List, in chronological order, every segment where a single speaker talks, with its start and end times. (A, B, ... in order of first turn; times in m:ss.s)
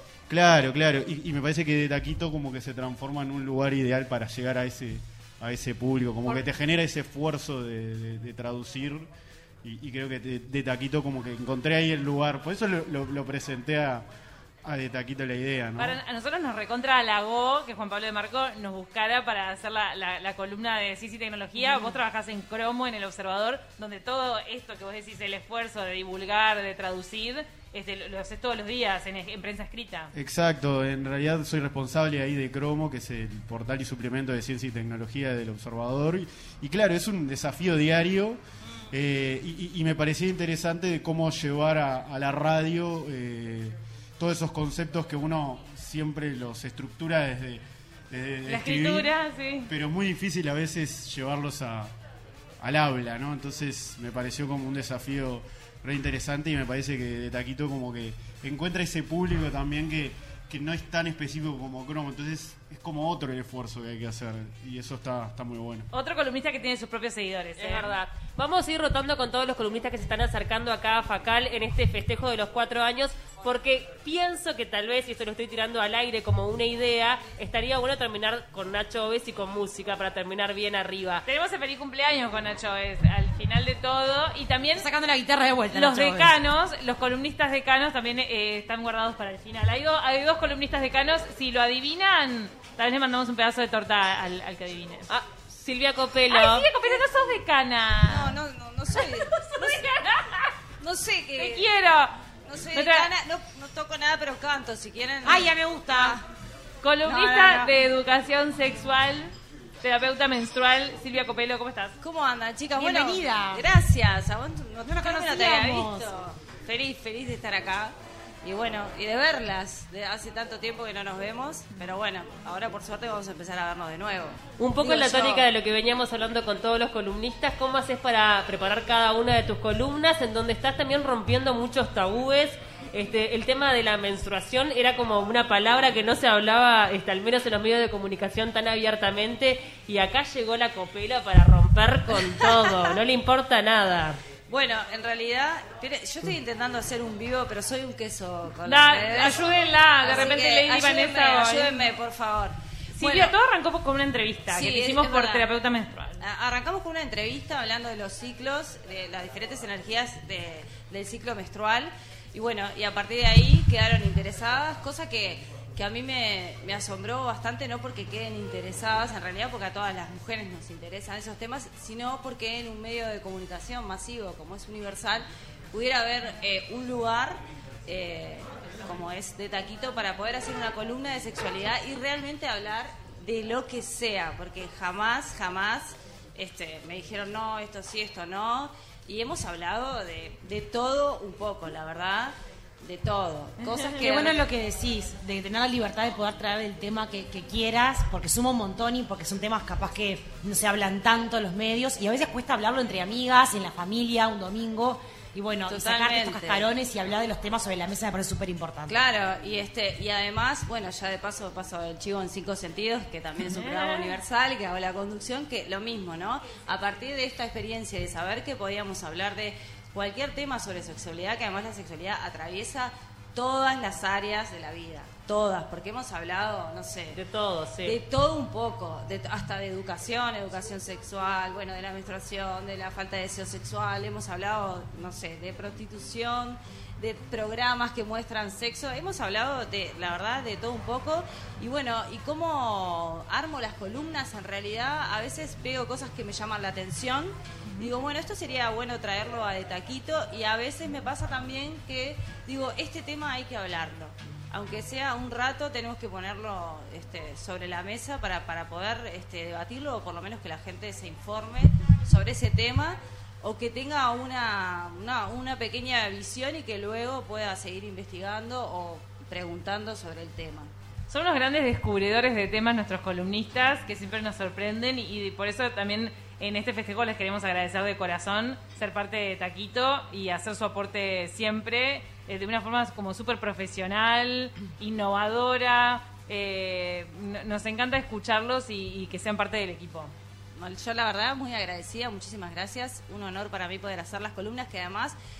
0:00.3-0:09.1 A
0:09.6-0:14.0 A
0:14.6-0:16.0 A
0:15.8-0:30.1 B
0:30.1-0:38.4 A
0:38.9-0:49.1 A
0:48.4-0:49.7 B
0:49.7-0:51.9 A
0:52.6-1:05.9 A
1:05.9-1:07.9 B
1:07.6-1:21.2 C
1:21.2-1:24.9 B
1:24.7-1:26.3 D
1:25.7-1:38.3 B
1:36.3-1:37.1 E
1:38.0-1:39.9 E
1:39.0-1:40.5 B
1:40.8-1:41.7 E
1:41.4-1:42.1 B
1:42.5-1:46.2 E
1:42.7-1:43.1 B
1:45.2-1:46.2 D
1:46.8-1:52.0 B
1:47.0-1:47.7 E
1:52.0-2:05.4 E
1:52.8-1:53.6 D
1:54.8-1:56.1 D
2:04.6-2:24.2 C
2:22.4-2:22.9 E
2:24.5-2:29.4 E
2:28.6-2:31.9 B
2:30.0-2:33.3 E
2:33.0-2:36.1 B
2:34.5-2:35.5 E
2:36.2-3:14.5 E
3:14.0-3:29.0 D
3:25.6-3:26.7 E
3:28.9-3:47.2 E
3:33.5-3:34.1 B
3:47.1-3:48.0 C
3:47.8-4:30.7 E
4:31.1-4:50.1 B
4:50.6-4:55.2 E